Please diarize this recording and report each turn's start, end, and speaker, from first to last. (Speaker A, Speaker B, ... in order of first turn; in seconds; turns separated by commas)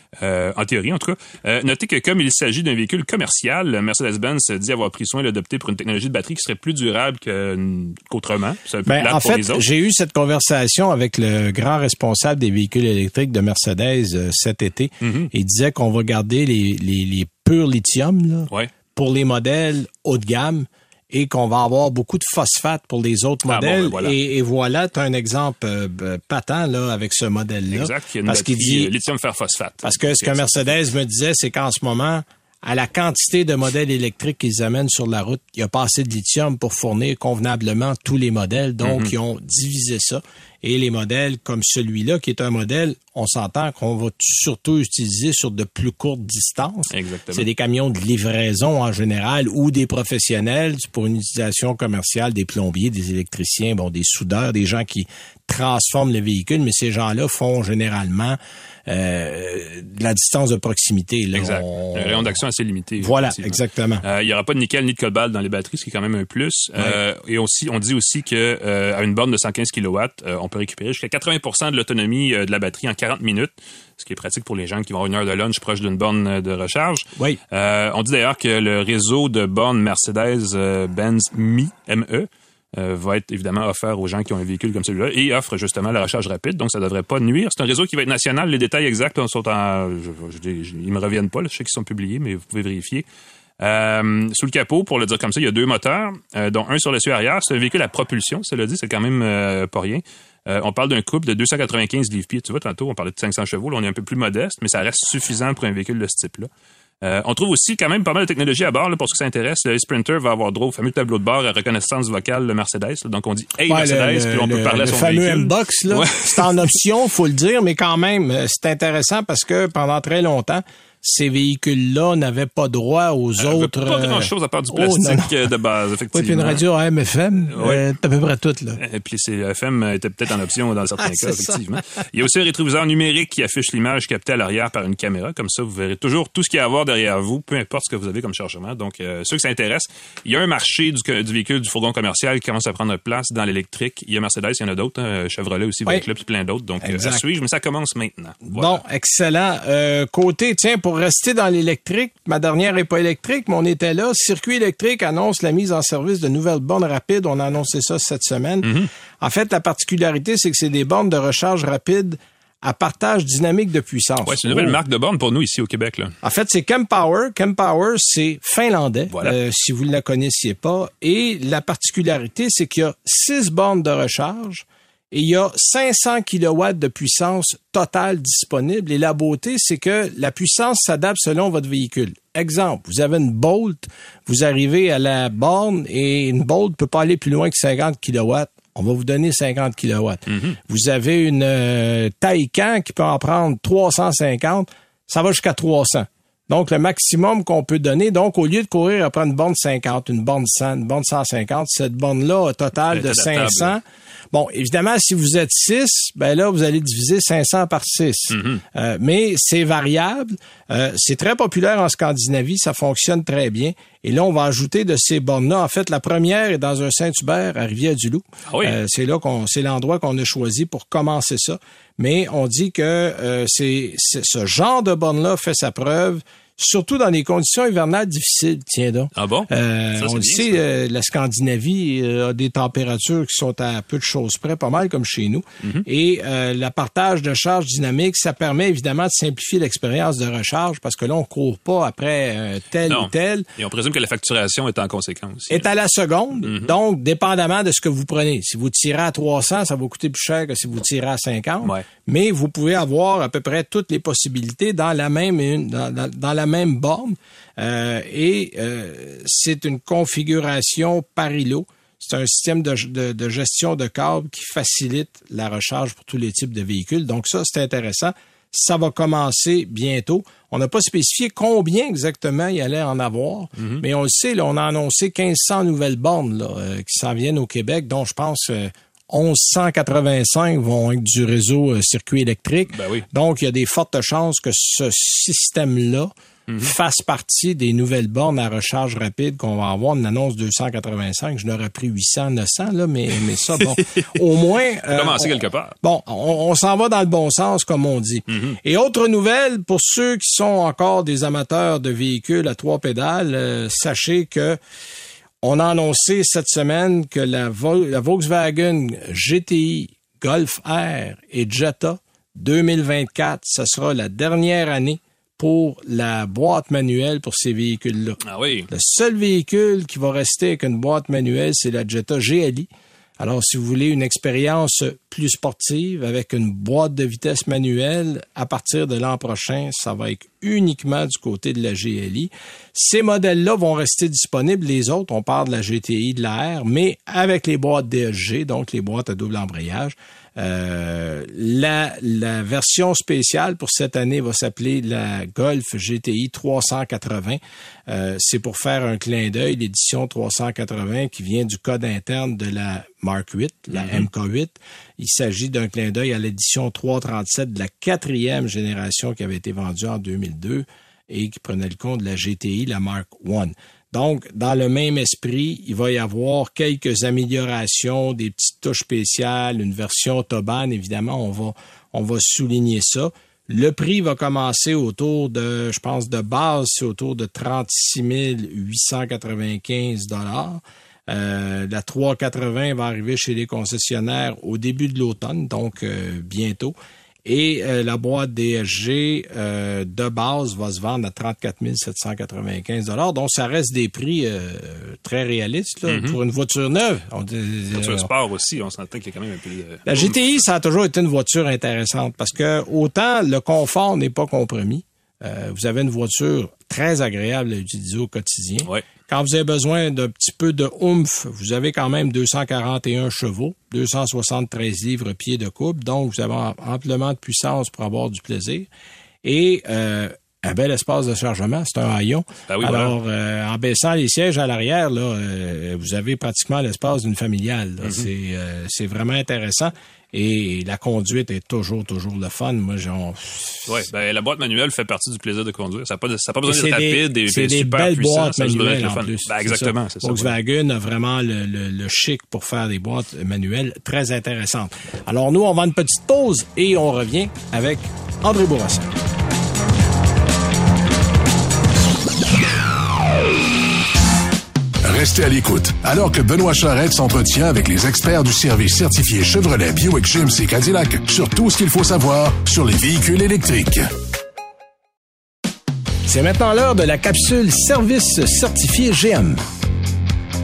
Speaker A: 0.2-9.7, Speaker B: 8.9-29.0, Speaker A: 15.0-15.3, Speaker A: 23.5-24.2, Speaker A: 27.7-30.8, Speaker B: 29.8-62.4, Speaker A: 38.8-39.1, Speaker A: 46.9-47.5, Speaker A: 61.3-93.0, Speaker B: 63.0-64.0, Speaker A: 93.6-106.5, Speaker A: 107.0-116.8, Speaker B: 113.7-125.3, Speaker A: 123.4-126.6, Speaker B: 126.1-128.8, Speaker A: 127.5-127.8, Speaker A: 128.8-148.8, Speaker B: 131.0-131.6, Speaker B: 146.8-147.2, Speaker B: 148.5-164.8, Speaker A: 158.6-158.9, Speaker A: 164.3-166.2, Speaker B: 166.2-243.5, Speaker A: 190.3-190.6, Speaker A: 202.9-203.8, Speaker A: 208.3-208.6, Speaker A: 218.5-218.8, Speaker A: 229.2-230.6, Speaker A: 242.9-245.7, Speaker B: 245.5-304.6, Speaker A: 246.4-246.7, Speaker A: 273.6-273.8, Speaker A: 282.8-283.1, Speaker A: 286.5-286.7, Speaker A: 293.6-294.2, Speaker A: 294.9-295.8, Speaker A: 298.3-298.6, Speaker B: 305.4-398.1, Speaker A: 318.2-318.7, Speaker A: 353.7-354.1, Speaker A: 395.9-396.2, Speaker A: 397.7-400.2, Speaker B: 399.9-418.7, Speaker B: 419.2-433.9, Speaker A: 422.5-422.9, Speaker A: 427.8-428.1, Speaker A: 433.7-440.3, Speaker B: 436.5-448.9, Speaker C: 454.9-463.8, Speaker B: 466.1-469.4